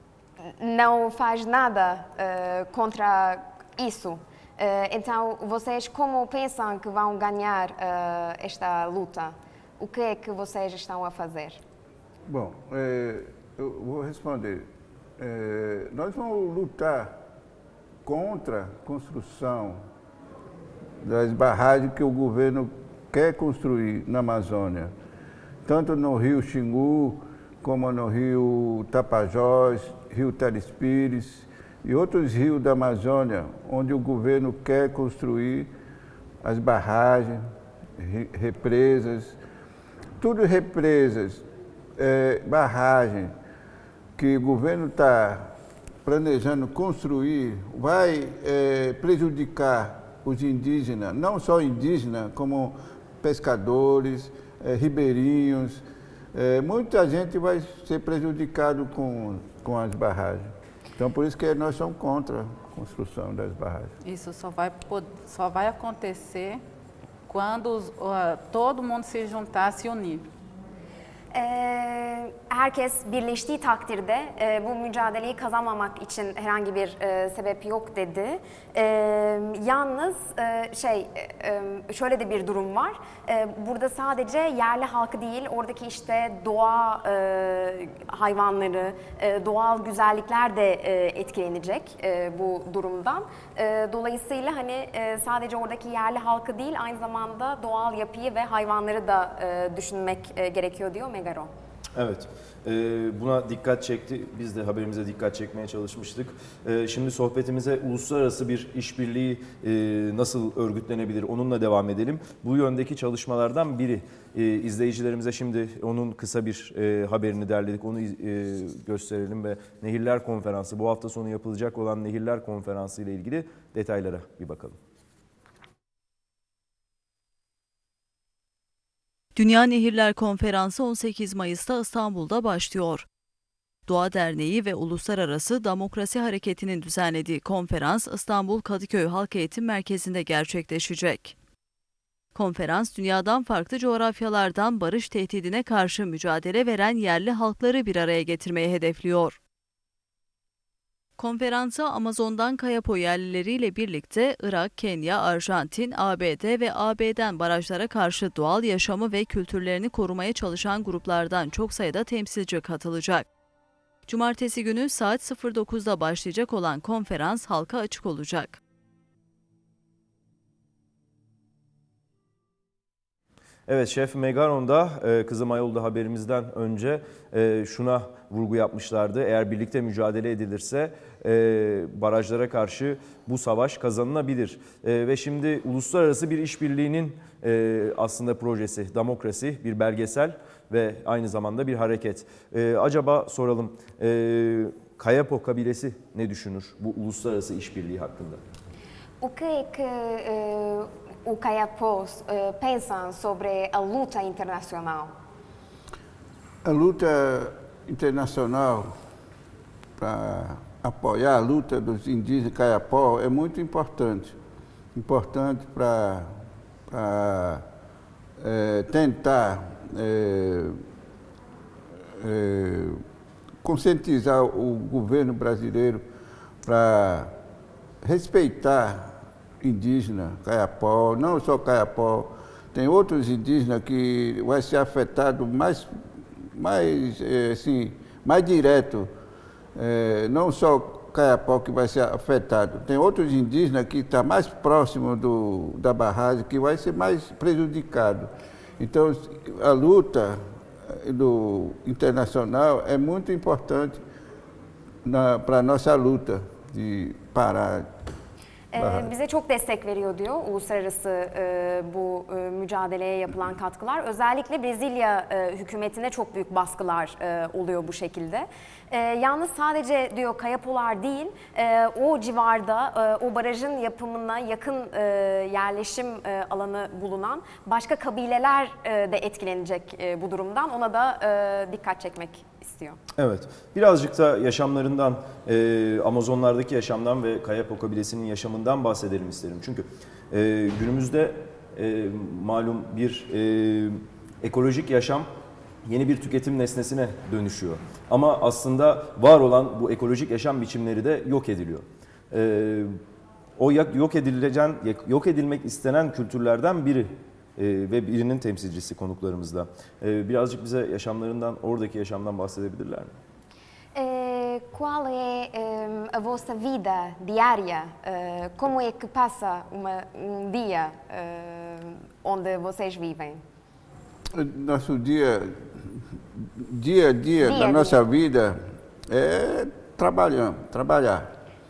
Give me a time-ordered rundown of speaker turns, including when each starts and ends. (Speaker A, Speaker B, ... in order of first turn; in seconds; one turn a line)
Speaker A: 0.5-11.6
Speaker B: 12.3-14.7
Speaker B: 15.2-17.2
Speaker B: 18.1-19.8
Speaker B: 21.0-24.9
Speaker B: 25.6-35.7
Speaker B: 36.4-39.4
Speaker B: 40.2-41.5
Speaker B: 42.0-43.3
Speaker B: 44.2-45.5
Speaker B: 46.0-55.8
Speaker B: 56.3-63.9
Speaker C: 64.0-66.6
Speaker C: 67.3-70.3
Speaker A: 71.3-101.5
Speaker D: 102.0-124.8
Speaker E: 129.4-133.1
Speaker E: 133.9-141.3
Speaker E: 142.3-149.4
Speaker E: 151.2-163.3
Speaker E: 164.1-168.6
Speaker D: 173.7-198.4
Speaker A: 199.2-205.1
Speaker B: 206.6-208.9
Speaker B: 210.0-214.4
Speaker B: 214.9-216.3
Speaker B: 216.9-217.7
Speaker B: 218.4-220.8
Speaker B: 222.1-223.0
Speaker B: 223.6-226.0
Speaker B: 226.6-227.3
Speaker B: 228.0-236.0
Speaker B: 236.5-239.1
Speaker B: 239.8-254.0
Speaker B: 255.1-257.9
Speaker A: 258.7-283.0
Speaker B: 258.8-259.1
Speaker D: 283.2-295.3
Speaker D: 295.9-303.0
Speaker D: 303.6-313.1
Speaker A: 313.9-323.4
Speaker B: 324.3-331.3
Speaker A: 327.4-328.0